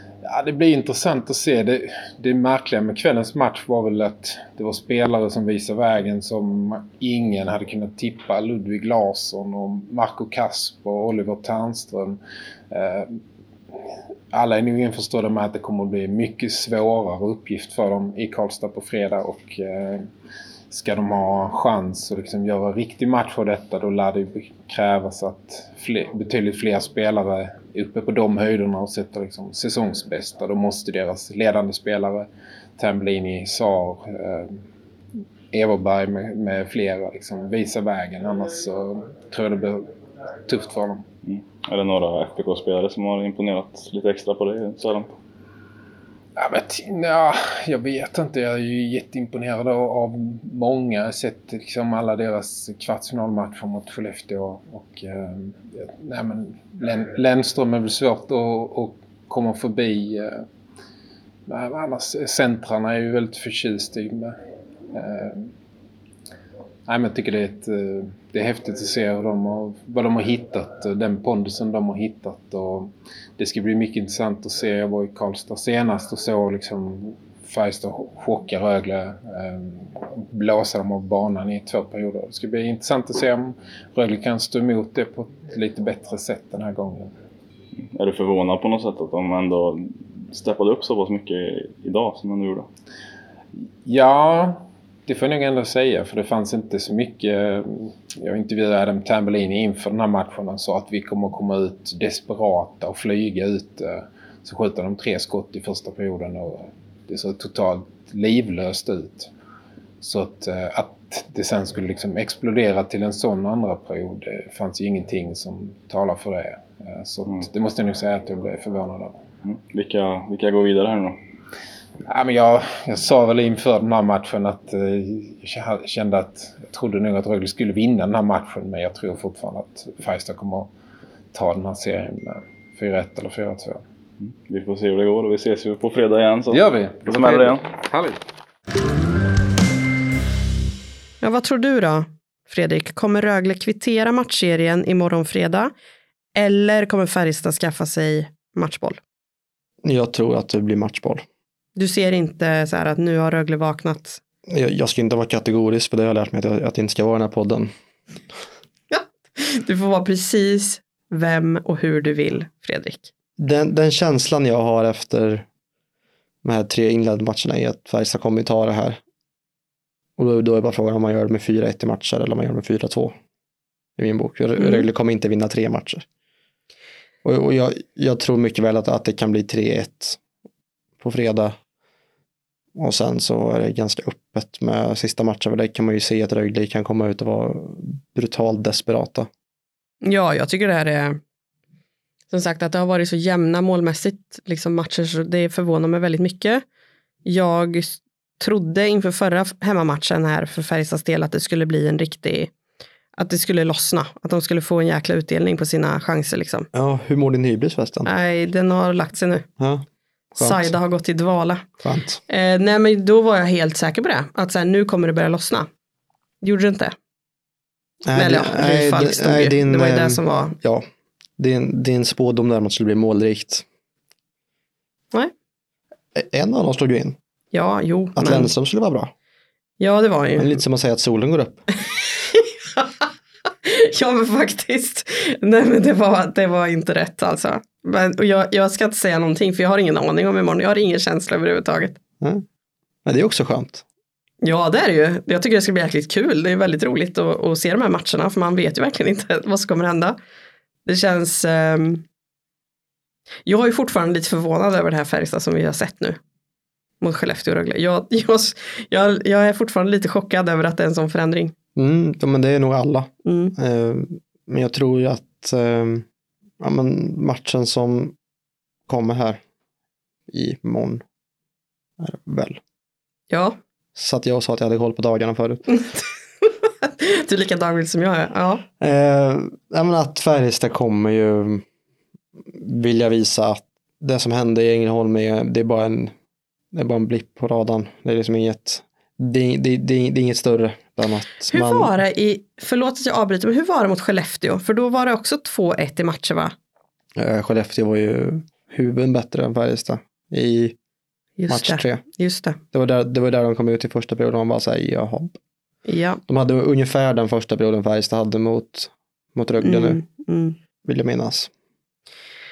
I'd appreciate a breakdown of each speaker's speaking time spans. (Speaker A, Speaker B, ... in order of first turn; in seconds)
Speaker A: 0.2-12.2, 12.7-13.2, 14.3-20.1, 20.7-34.6, 35.5-39.9, 40.5-41.0, 46.4-60.4, 61.5-64.3, 64.9-65.5, 66.8-87.1, 93.8-109.3, 110.0-119.2, 122.0-130.7, 131.3-133.8, 136.5-138.2
Speaker B: 41.2-45.1, 87.8-92.7, 119.4-121.2, 134.2-137.7
Speaker C: 141.2-145.7, 146.3-149.0, 151.8-154.2, 158.9-163.1, 174.6-174.8, 190.0-191.2, 192.3-196.6, 197.2-202.5, 203.2-206.7, 208.0-209.5, 210.4-211.7, 212.3-215.7, 216.4-216.9, 218.1-220.6, 227.5-228.5, 229.8-230.6, 232.3-233.1, 233.6-242.0, 244.4-250.2, 250.8-252.0, 253.4-256.2, 257.0-261.5, 263.2-263.5, 273.3-273.6, 275.7-278.6, 291.5-296.5, 301.4-302.6, 305.9-306.2, 309.6-310.6
Speaker D: 149.8-151.2, 154.5-157.7, 163.4-165.4, 166.4-169.0, 170.2-173.1, 174.0-176.0, 177.2-180.2, 181.0-181.5, 182.8-189.3, 206.7-208.1, 209.6-210.7, 211.8-212.2, 218.0-220.8, 221.4-223.6, 226.1-227.2, 228.2-229.1, 230.3-231.6, 243.0-243.8, 261.8-266.0, 266.6-268.1, 268.9-269.4, 270.3-271.0, 272.0-272.6, 273.9-275.7, 278.8-281.6, 282.5-286.1, 286.7-291.9, 297.1-300.8, 301.5-302.0, 302.7-305.4, 306.3-310.0, 310.8-311.5